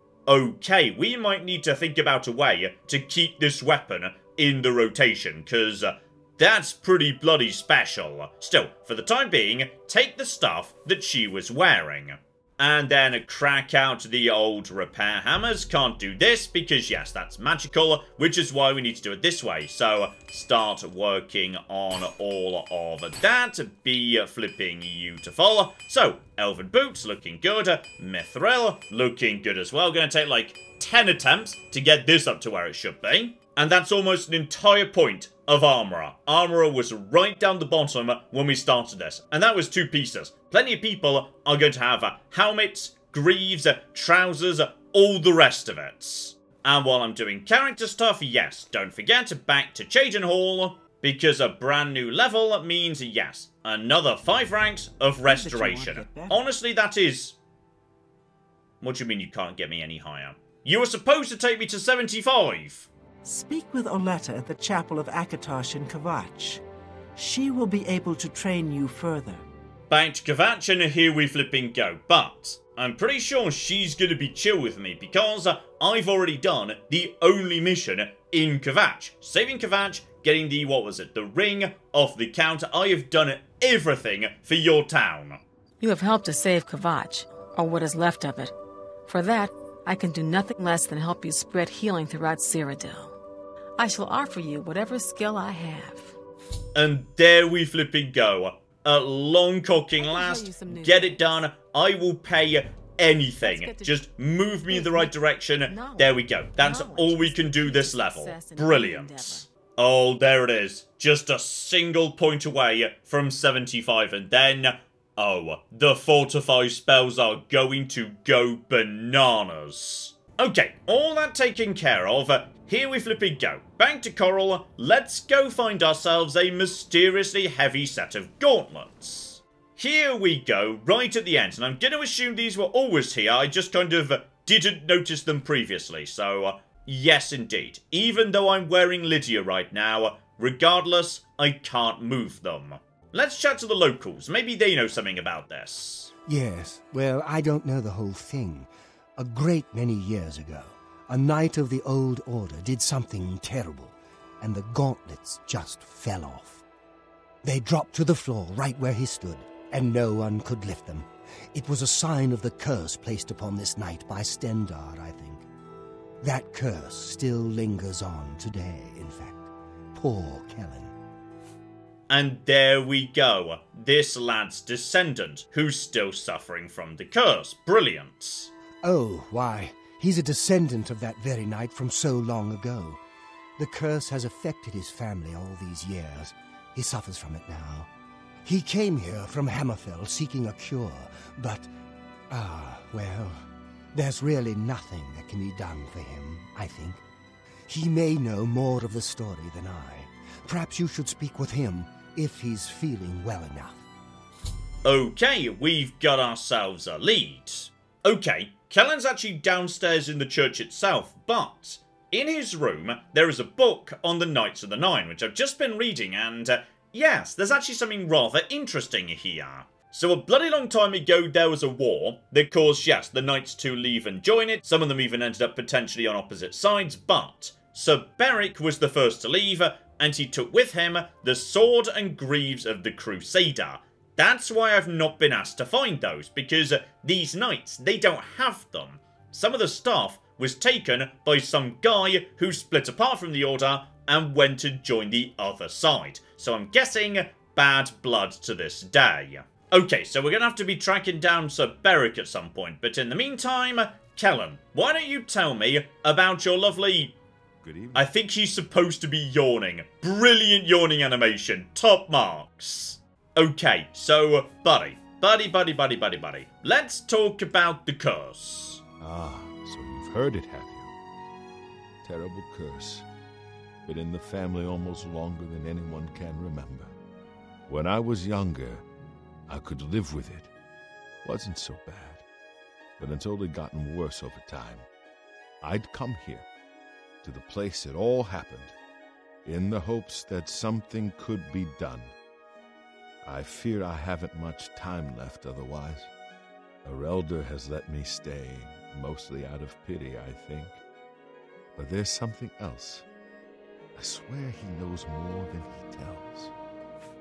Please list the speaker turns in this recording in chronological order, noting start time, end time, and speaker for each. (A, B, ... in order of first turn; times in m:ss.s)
0:00.3-0:57.4 A
0:55.2-0:56.4 B
0:58.8-1:02.9 A
1:03.2-1:06.6 B
1:07.2-1:09.4 B
1:09.9-1:25.4 A
1:25.8-1:28.5 C
1:29.1-1:33.1 C
1:33.8-1:36.2 C
1:36.7-2:26.1 A
1:40.0-1:41.2 C
1:43.4-1:43.9 C
1:44.7-1:45.1 C
1:45.7-1:49.4 C
2:26.3-2:36.6 D
2:37.4-2:45.4 D
2:46.2-2:50.9 D
2:52.1-2:58.5 A
2:58.8-3:03.0 D
3:03.6-3:07.9 D
3:08.4-3:11.7 D
3:12.3-3:17.0 D
3:17.7-3:23.8 D
3:24.8-4:17.1 A
4:17.6-4:18.0 E
4:17.9-4:28.8 A
4:29.0-4:31.0 E
4:32.0-4:33.1 E
4:33.8-4:36.9 E
4:37.7-4:38.8 E
4:39.5-4:40.5 E
4:41.2-4:42.2 E
4:43.0-4:44.9 E
4:45.6-4:46.4 E
4:47.2-4:48.7 E
4:49.4-4:52.1 E
4:53.2-4:56.1 E
4:56.8-5:00.8 E
5:01.8-5:03.0 E
5:04.0-5:06.5 E